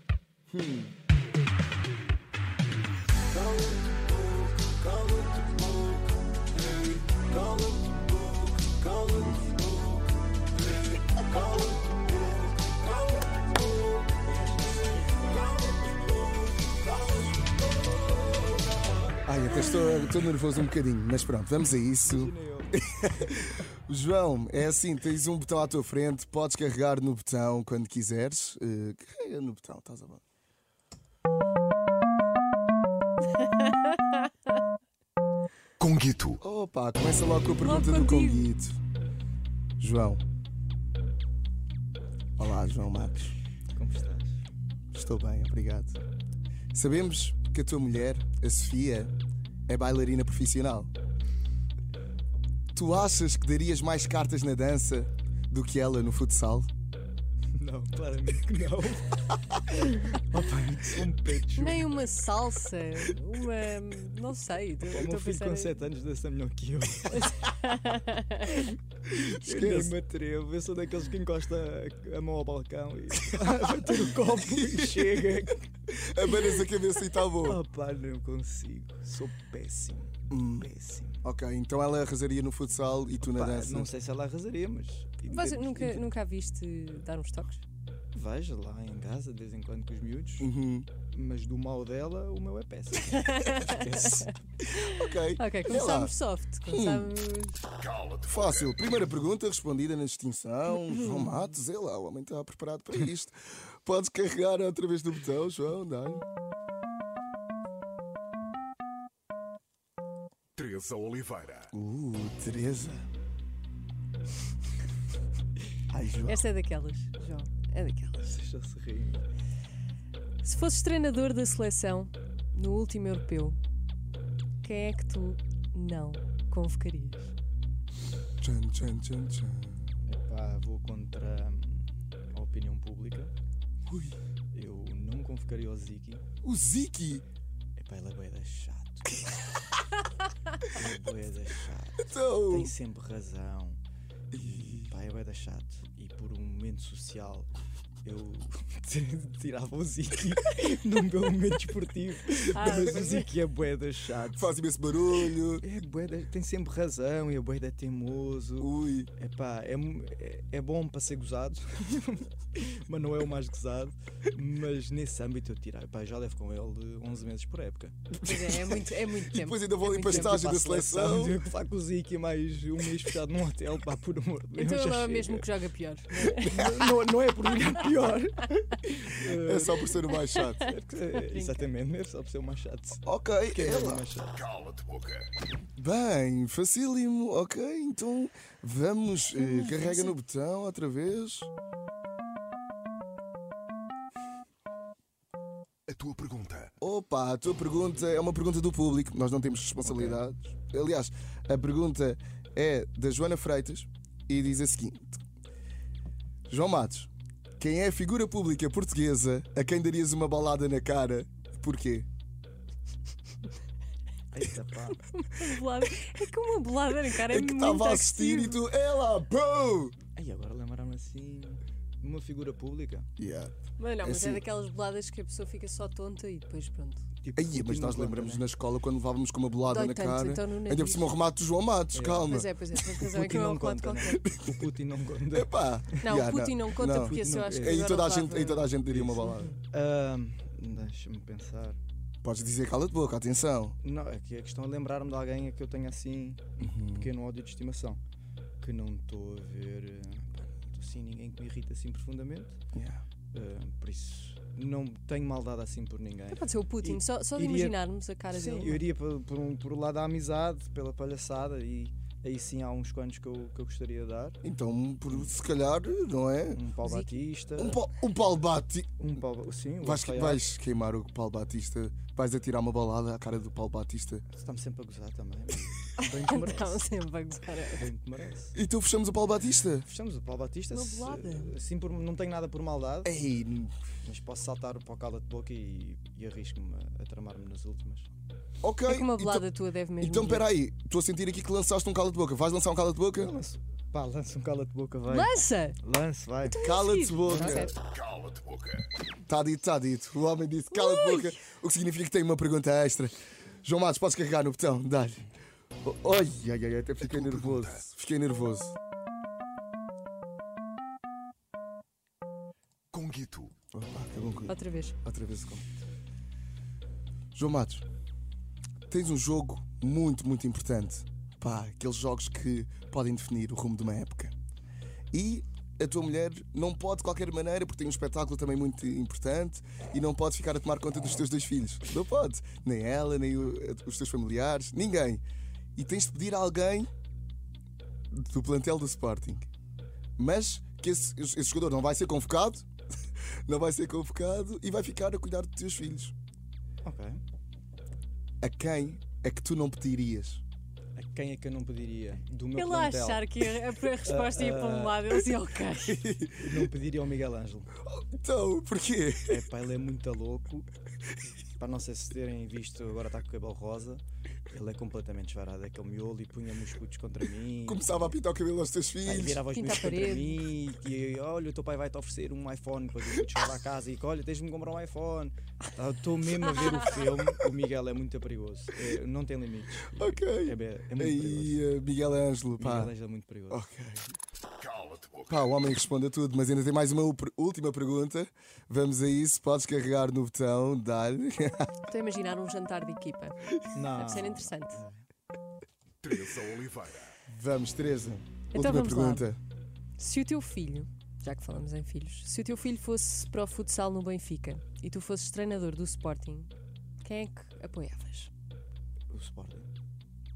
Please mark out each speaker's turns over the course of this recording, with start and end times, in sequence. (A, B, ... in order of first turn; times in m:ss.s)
0:00.5-0:00.9 A
0:03.3-0:10.2 B
0:11.1-0:17.5 B
0:19.3-0:30.2 A
0:22.0-0:22.8 B
0:35.8-0:36.4 C
0:36.4-0:38.8 A
0:37.6-0:38.5 D
0:39.8-0:40.2 A
0:42.4-0:43.4 A
0:43.7-0:44.3 B
0:44.9-0:46.0 A
0:46.7-0:49.1 A
0:49.7-0:50.9 A
0:52.8-0:56.7 A
0:57.6-0:59.2 B
0:59.9-1:01.9 B
1:01.6-1:05.8 D
1:04.9-1:07.5 B
1:07.6-1:08.5 D
1:08.5-1:16.6 B
1:09.1-1:09.9 A
1:15.9-1:17.6 A
1:17.4-1:21.2 B
1:20.3-1:20.7 A
1:21.2-1:23.9 A
1:23.2-1:26.1 B
1:25.3-1:27.6 D
1:28.1-1:30.5 B
1:30.4-1:30.9 A
1:31.1-1:34.3 B
1:33.1-1:34.3 D
1:34.7-1:36.1 A
1:34.8-1:37.6 D
1:36.7-1:37.1 A
1:37.8-1:38.2 C
1:38.2-1:46.2 A
1:40.9-1:41.2 D
1:50.6-1:51.7 C
1:51.7-1:53.1 A
1:55.9-1:56.4 A
1:56.2-1:58.4 D
1:58.3-1:59.3 B
2:00.4-2:03.6 D
2:04.6-2:07.3 D
2:08.4-2:09.9 A
2:10.1-2:13.3 B
2:13.9-2:14.2 A
2:14.5-2:16.2 B
2:16.4-2:17.2 A
2:17.8-2:19.5 B
2:20.7-2:23.8 B
2:22.1-2:22.7 A
2:24.3-2:24.9 A
2:24.3-2:27.5 B
2:28.0-2:34.6 B
2:32.5-2:33.3 D
2:34.3-2:35.6 A
2:35.6-2:48.2 B
2:38.6-2:39.1 A
2:48.2-2:50.3 D
2:48.4-2:48.7 A
2:49.3-2:51.4 A
2:50.0-2:55.5 B
2:54.6-2:56.5 D
2:56.2-3:00.0 B
2:59.3-3:00.7 A
3:00.3-3:00.7 D
3:00.6-3:04.6 B
3:01.2-3:01.6 D
3:03.0-3:04.0 A
3:04.6-3:05.3 C
3:05.8-3:11.5 A
3:09.5-3:10.0 D
3:15.9-3:16.7 C
3:16.8-3:25.2 A
3:19.8-3:20.2 B
3:26.5-3:32.1 A
3:34.3-3:35.0 B
3:35.1-3:38.7 D
3:37.2-3:40.0 A
3:40.2-3:43.1 B
3:43.2-3:44.4 A
3:43.8-3:47.1 D
3:47.2-3:48.5 B
3:47.4-3:52.5 A
3:49.6-3:51.2 D
3:51.9-3:52.4 B
3:52.3-3:54.3 D
3:53.1-3:56.0 B
3:54.2-3:54.6 A
3:55.3-3:59.6 A
3:56.0-3:58.8 D
3:57.1-3:57.9 B
3:58.8-4:01.8 B
4:02.2-4:03.8 A
4:03.8-4:08.0 B
4:06.6-4:07.1 A
4:08.6-4:12.6 B
4:12.7-4:13.0 A
4:13.3-4:17.8 B
4:16.3-4:18.9 D
4:18.3-4:24.4 B
4:24.4-4:26.6 A
4:25.1-4:25.4 B
4:26.5-4:27.9 B
4:26.8-4:27.1 D
4:27.6-4:29.0 A
4:29.0-4:30.5 B
4:29.8-4:34.2 A
4:34.3-4:36.9 B
4:36.0-4:37.9 D
4:37.8-4:38.6 B
4:38.5-4:39.9 A
4:39.8-4:43.2 B
4:40.7-4:41.5 D
4:43.0-4:43.7 A
4:44.0-4:48.1 B
4:48.6-4:49.5 A
4:48.9-4:50.4 D
4:50.0-4:53.4 A
4:53.1-4:56.6 B
4:55.1-4:55.8 D
4:56.5-4:57.8 D
4:56.6-4:57.7 A
4:57.3-4:57.7 B
4:57.8-4:58.9 C
4:59.3-5:05.2 A
5:00.8-5:01.3 D
5:05.8-5:08.8 A
5:07.0-5:07.8 C
5:12.9-5:13.5 C
5:13.7-5:15.7 A
5:14.5-5:15.0 D
5:17.4-5:17.8 A
5:18.9-5:24.3 A
5:25.1-5:35.2 A
5:35.8-5:36.9 A
5:38.1-5:39.5 A
5:40.2-5:42.7 A
5:43.5-5:46.1 A
5:46.8-5:47.2 B
5:48.4-5:50.4 A
5:51.0-5:53.5 B
5:52.6-5:56.1 D
5:54.0-5:55.1 B
5:55.9-5:56.4 A
5:56.4-5:57.7 B
5:57.9-5:59.4 A
5:59.2-6:00.7 B
6:01.6-6:08.2 B
6:07.6-6:09.5 A
6:09.0-6:21.7 B
6:09.5-6:10.4 D
6:19.9-6:22.9 A
6:22.6-6:23.6 B
6:23.5-6:24.2 A
6:24.6-6:25.1 C
6:25.3-6:31.7 A
6:31.9-6:34.8 D
6:33.8-6:35.0 B
6:36.0-6:37.1 C
6:37.3-6:39.4 A
6:38.5-6:39.3 D
6:40.0-6:46.5 D
6:47.0-6:48.3 D
6:49.1-6:49.7 B